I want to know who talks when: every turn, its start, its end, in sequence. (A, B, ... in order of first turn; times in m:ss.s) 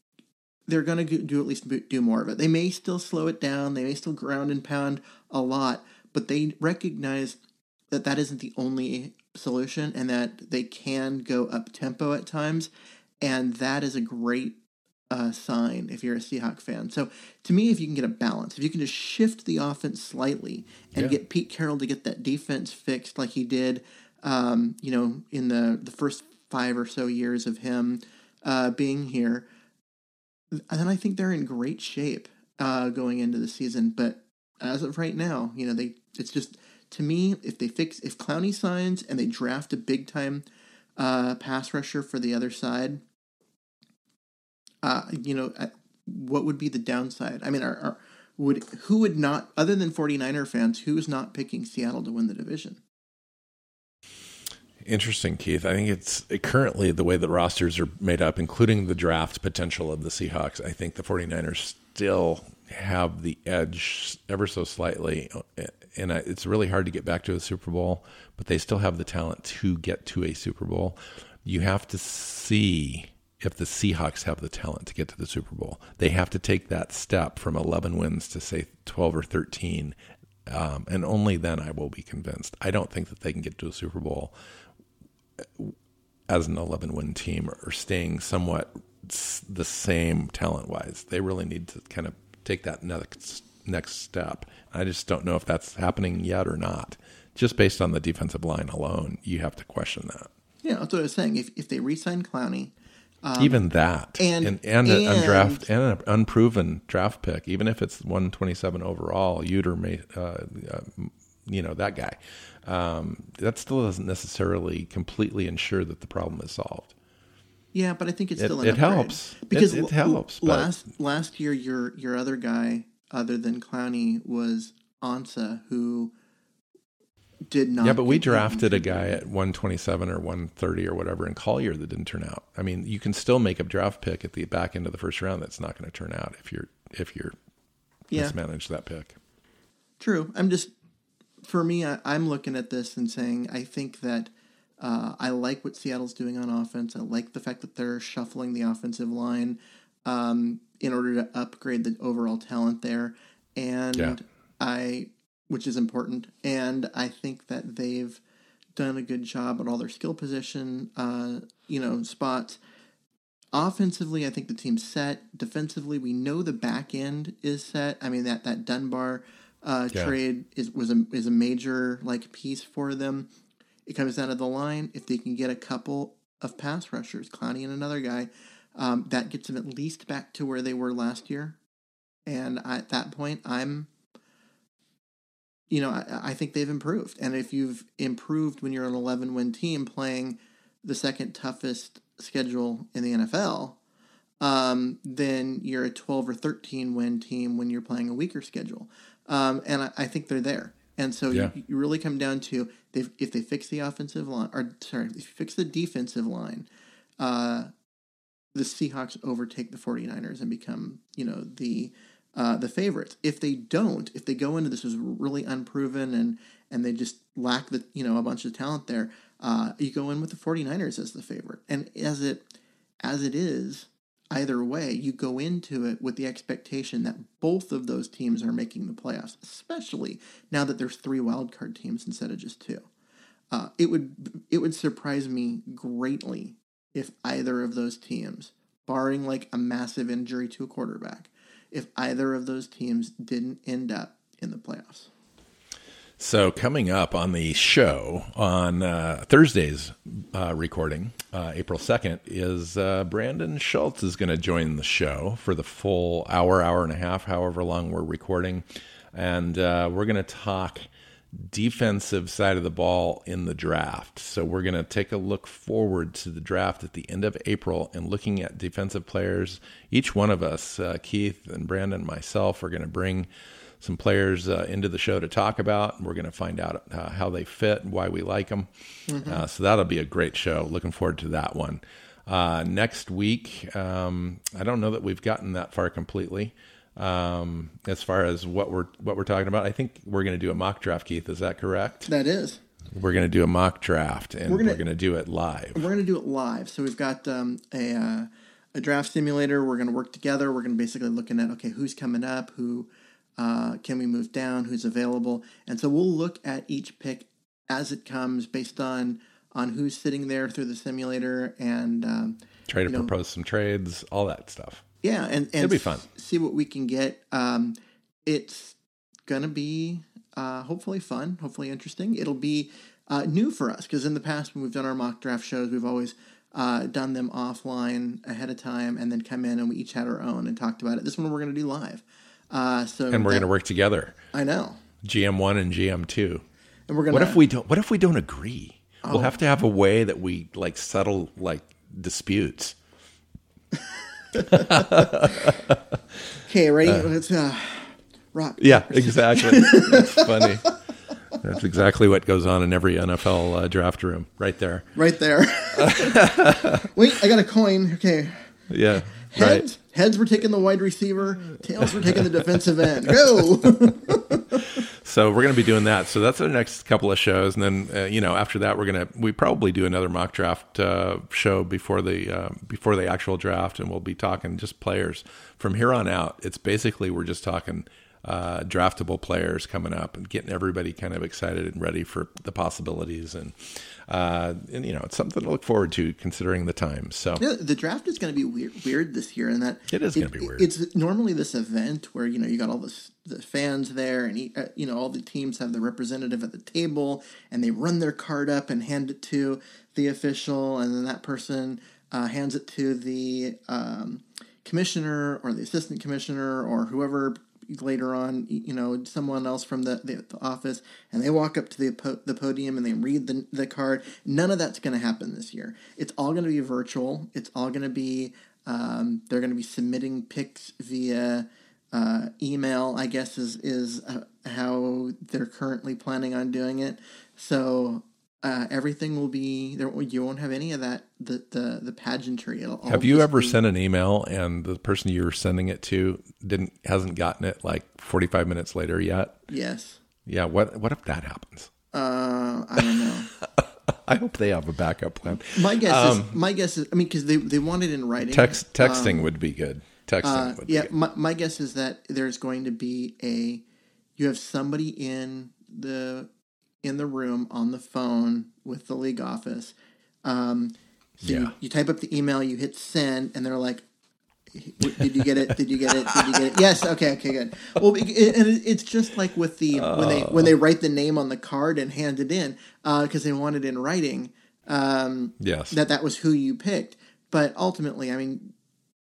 0:00.7-0:07.4 A
0:07.9-0:12.7 A
0:13.2-0:14.6 A
0:15.1-0:29.4 A
0:30.5-0:40.4 A
0:41.0-0:43.0 A
0:44.8-0:52.8 A
0:54.8-1:24.3 B
1:25.4-1:25.7 B
1:26.3-1:40.3 B
1:40.6-1:42.7 A
1:43.2-1:43.6 A
1:43.4-1:56.9 B
1:44.2-1:45.6 A
1:57.7-2:06.1 A
1:58.4-2:00.7 B
2:07.5-2:09.2 A
2:07.8-2:17.3 B
2:18.1-2:18.4 A
2:18.1-2:19.2 B
2:20.0-2:20.7 A
2:21.4-2:38.2 A
2:34.0-2:34.2 B
2:38.8-2:42.6 A
2:43.5-2:53.3 A
2:53.9-3:01.6 A
3:02.3-3:03.9 A
3:05.7-3:13.8 A
3:14.4-3:26.7 A
3:27.2-3:27.7 A
3:28.6-3:42.4 A
3:43.0-3:52.9 A
3:53.5-4:05.1 A
4:06.2-4:33.3 B
4:33.8-4:52.1 B
4:39.1-4:39.4 A
4:52.0-4:52.6 A
4:52.9-4:55.9 B
4:54.5-4:54.8 A
4:55.7-5:13.1 A
5:12.7-5:14.8 B
5:15.0-5:18.8 A
5:15.6-5:16.0 B
5:19.3-5:33.5 A
5:33.1-5:34.2 B
5:34.3-5:34.8 A
5:35.0-5:36.4 B
5:36.9-5:37.4 A
5:37.1-5:42.8 B
5:39.0-5:39.4 A
5:43.8-5:45.3 A
5:44.3-5:46.0 B
5:46.4-5:50.7 A
5:48.6-5:50.8 B
5:51.3-5:54.9 B
5:55.0-6:04.8 A
5:55.8-5:56.9 B
5:58.7-5:59.7 B
6:01.8-6:03.1 B
6:04.1-6:27.4 B
6:27.4-7:13.6 A
6:29.9-6:30.7 B
7:12.9-7:19.4 B
7:19.5-7:20.0 A
7:20.3-7:21.7 B
7:21.9-7:23.3 A
7:22.8-7:26.4 B
7:25.4-7:29.3 A
7:28.2-7:30.9 B
7:30.2-7:33.6 A
7:34.2-7:36.3 A
7:36.8-7:43.8 A
7:41.2-7:41.6 B
7:44.5-7:58.5 A
7:44.8-7:45.1 B
7:45.9-7:46.6 B
7:49.7-7:50.6 B
7:55.4-7:55.8 B